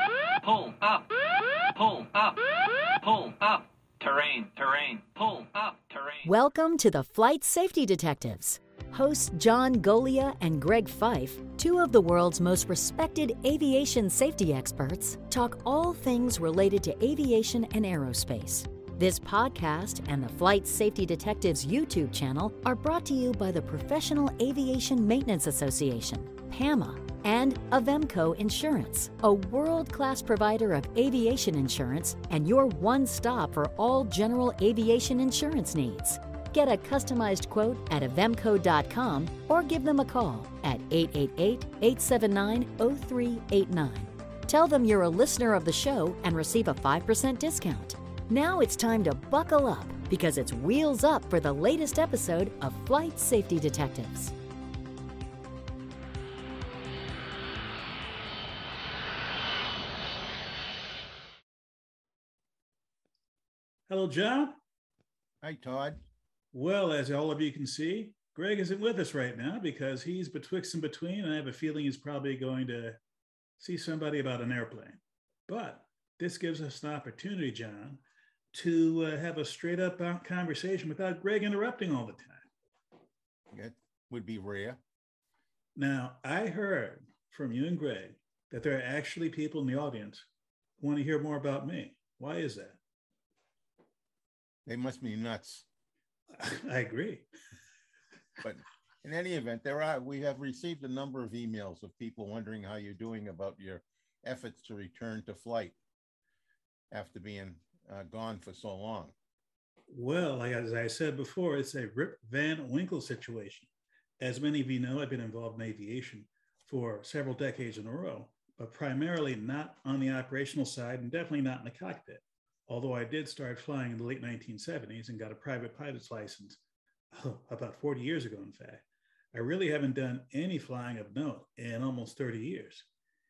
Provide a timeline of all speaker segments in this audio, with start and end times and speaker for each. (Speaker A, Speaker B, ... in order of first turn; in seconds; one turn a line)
Speaker A: 0.4-6.3
Speaker B: 6.2-54.3
Speaker C: 63.9-64.5
Speaker D: 65.4-66.0
Speaker C: 66.5-73.0
Speaker C: 73.6-78.0
Speaker C: 78.5-82.5
Speaker D: 83.5-84.8
Speaker C: 85.8-90.3
Speaker C: 90.8-92.8
Speaker D: 94.7-95.7
Speaker C: 96.3-97.3
Speaker D: 98.4-105.8
Speaker D: 106.9-109.1
Speaker C: 109.9-132.9